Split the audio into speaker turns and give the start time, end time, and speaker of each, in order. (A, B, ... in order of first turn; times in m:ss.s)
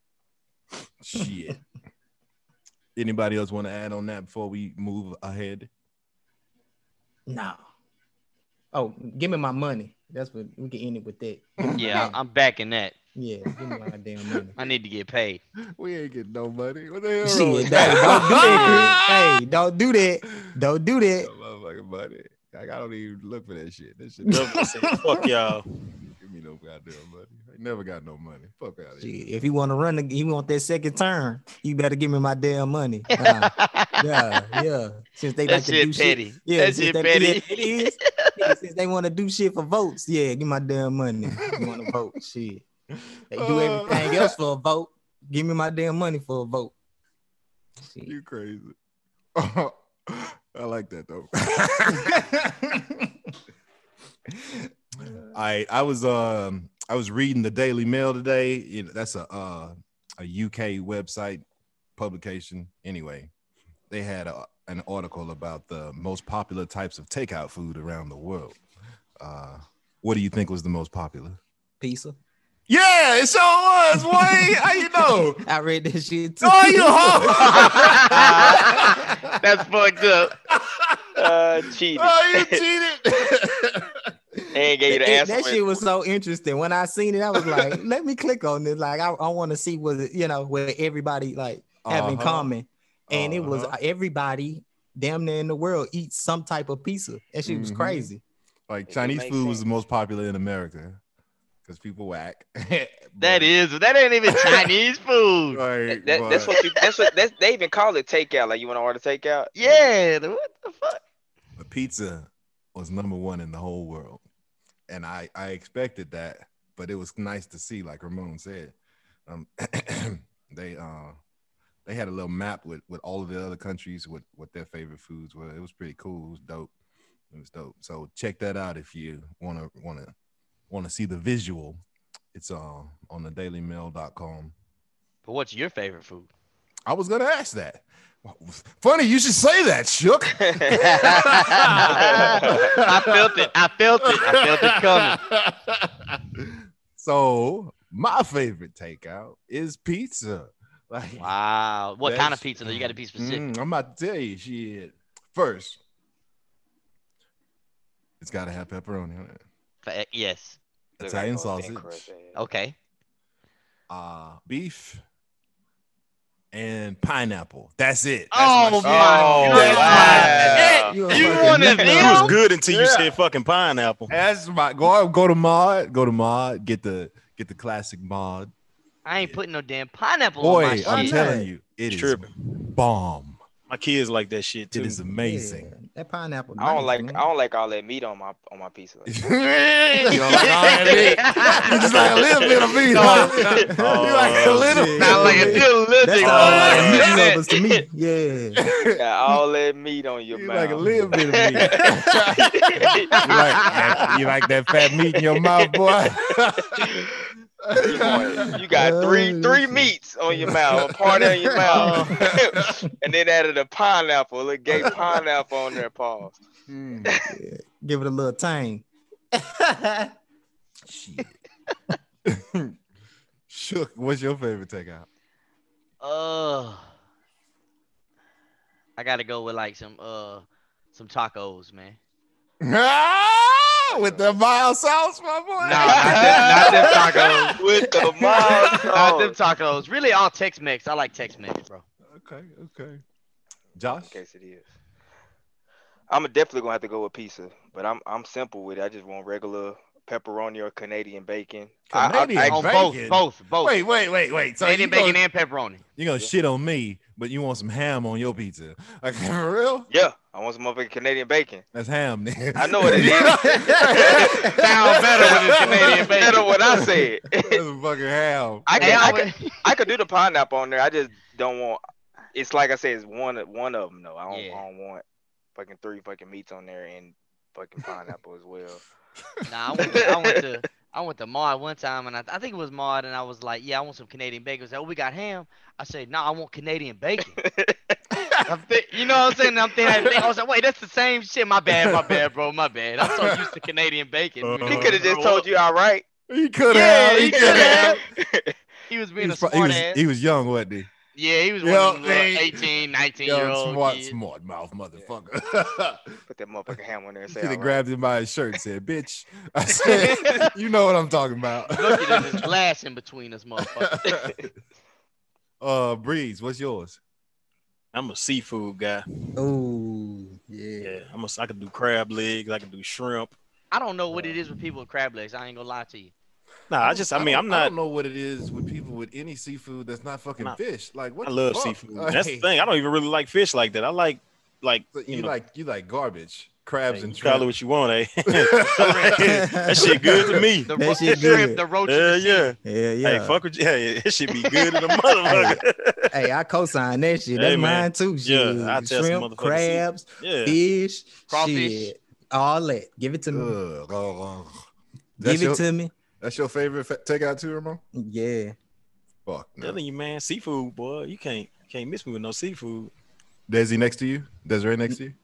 0:01.0-0:01.6 A
0:02.9-0:05.7 A
0:07.3-0:07.6 B
0:08.7-0:12.1 B
0:11.6-0:12.1 A
0:11.8-0:12.9 C
0:13.2-0:14.6 B
0:14.6-0:15.4 C
0:15.8-0:19.4 A
0:17.2-0:21.3 B
0:17.8-0:18.8 C
0:21.2-0:24.7 A
0:24.3-0:25.6 D
0:26.2-0:29.1 A
0:29.0-0:42.6 B
0:33.2-0:34.0 C
0:35.4-0:38.3 C
0:41.4-0:41.7 A
0:43.3-0:46.7 B
0:43.3-0:44.3 A
0:47.8-0:48.1 B
0:48.0-0:48.8 A
0:49.3-0:52.2 A
0:55.3-1:01.4 A
1:02.0-1:03.3 A
1:03.9-1:08.6 A
1:09.2-1:11.4 A
1:11.8-1:12.2 B
1:12.7-1:15.4 A
1:15.4-1:17.7 B
1:16.4-1:19.4 A
1:17.6-1:20.3 C
1:20.5-1:21.2 A
1:21.2-1:22.6 E
1:21.9-1:24.1 A
1:24.5-1:25.8 E
1:24.9-1:38.2 B
1:27.4-1:27.7 A
1:31.8-1:32.5 A
1:33.1-1:33.7 A
1:37.4-1:38.1 A
1:38.7-1:41.0 A
1:38.9-1:39.6 E
1:41.6-1:43.5 A
1:43.2-1:45.6 C
1:44.3-1:44.7 A
1:45.5-1:46.5 A
1:45.9-1:49.9 E
1:46.6-1:47.0 C
1:49.5-1:51.0 C
1:51.6-1:54.2 A
1:54.9-1:58.8 A
1:59.3-2:01.2 A
2:01.8-2:06.7 A
2:07.3-2:10.1 A
2:10.7-2:11.8 A
2:12.3-2:14.5 A
2:15.2-2:16.3 C
2:16.9-2:23.5 A
2:20.5-2:21.0 E
2:20.7-2:25.2 C
2:21.7-2:22.7 E
2:24.0-2:31.3 A
2:31.2-2:33.4 C
2:32.0-2:35.8 A
2:38.2-2:39.4 A
2:39.8-2:40.6 C
2:41.0-2:42.1 A
2:41.0-2:42.4 E
2:42.3-2:42.7 C
2:43.9-2:45.0 A
2:46.5-2:50.7 A
2:48.3-2:52.4 C
2:48.8-2:52.1 E
2:49.5-2:52.4 B
2:51.8-2:54.1 D
2:52.6-2:53.1 A
2:54.1-2:58.5 A
2:59.0-3:01.2 C
3:00.4-3:03.4 A
3:00.9-3:01.5 B
3:01.9-3:02.6 D
3:03.7-3:05.0 D
3:04.7-3:05.7 A
3:05.1-3:07.2 B
3:06.6-3:09.1 E
3:09.1-3:15.6 A
3:10.2-3:13.7 E
3:10.8-3:11.8 C
3:12.9-3:13.3 C
3:13.8-3:15.5 D
3:14.5-3:18.6 B
3:15.0-3:17.4 C
3:16.2-3:17.0 D
3:16.2-3:17.2 E
3:16.7-3:17.0 A
3:18.6-3:19.0 A
3:18.9-3:21.8 E
3:20.3-3:28.5 A
3:22.3-3:24.1 E
3:25.3-3:25.7 E
3:26.8-3:27.1 E
3:27.8-3:36.4 E
3:28.7-3:29.9 B
3:30.4-3:32.8 A
3:31.1-3:32.1 B
3:31.7-3:32.1 C
3:34.7-3:35.2 A
3:36.7-3:37.2 A
3:37.3-3:40.1 B
3:40.9-3:41.4 A
3:42.2-3:42.7 A
3:43.5-3:45.1 A
3:46.0-3:46.9 C
3:49.0-3:52.0 C
3:52.6-3:57.6 A
3:53.9-3:54.2 E
3:55.6-3:57.6 C
3:55.8-3:59.4 E
3:58.2-3:58.9 A
3:58.7-4:01.8 C
4:02.1-4:03.0 A
4:03.8-4:04.2 A
4:03.8-4:04.7 E
4:06.1-4:12.8 E
4:11.9-4:15.2 A
4:12.4-4:13.8 C
4:14.6-4:15.8 C
4:16.0-4:19.9 A
4:19.9-4:21.6 E
4:21.7-4:29.2 A
4:22.6-4:24.6 E
4:24.1-4:26.8 C
4:25.2-4:27.6 E
4:28.6-4:31.8 E
4:28.7-4:29.6 C
4:32.3-4:35.0 E
4:34.3-4:34.6 C
4:35.6-4:38.8 E
4:39.4-4:47.4 C
4:39.8-4:40.4 E
4:47.4-4:48.0 E
4:48.2-4:48.4 A
4:48.4-4:55.4 C
4:49.8-4:50.2 E
4:51.7-4:52.2 A
4:53.0-4:53.5 A
4:54.4-4:55.0 A
4:54.6-4:56.0 E
4:56.3-4:58.0 A
4:56.7-4:58.0 C
4:57.2-4:58.6 E
4:58.9-5:00.0 C
4:59.2-5:00.9 A
5:01.1-5:04.1 C
5:01.6-5:02.7 A
5:03.2-5:06.2 A
5:06.3-5:07.8 E
5:07.3-5:12.5 A
5:11.7-5:14.1 C
5:13.6-5:14.5 A
5:15.6-5:17.0 A
5:17.9-5:19.0 D
5:19.4-5:21.1 B
5:20.8-5:23.3 D
5:23.7-5:26.1 C
5:26.7-5:27.7 D
5:26.8-5:32.4 A
5:31.2-5:35.3 D
5:34.9-5:37.5 A
5:36.9-5:46.1 D
5:38.4-5:39.2 A
5:38.8-5:39.2 C
5:39.2-5:40.0 B
5:40.2-5:40.4 A
5:40.7-5:42.5 C
5:40.7-5:41.6 B
5:42.6-5:43.4 B
5:45.2-5:53.6 B
5:47.3-5:50.6 D
5:51.3-5:51.9 C
5:53.3-5:54.6 A
5:55.2-5:55.6 A
5:55.2-5:55.9 B
5:56.2-5:57.8 A
5:57.9-5:58.5 B
5:59.2-5:59.8 A
5:59.6-6:02.9 D
6:03.5-6:05.2 A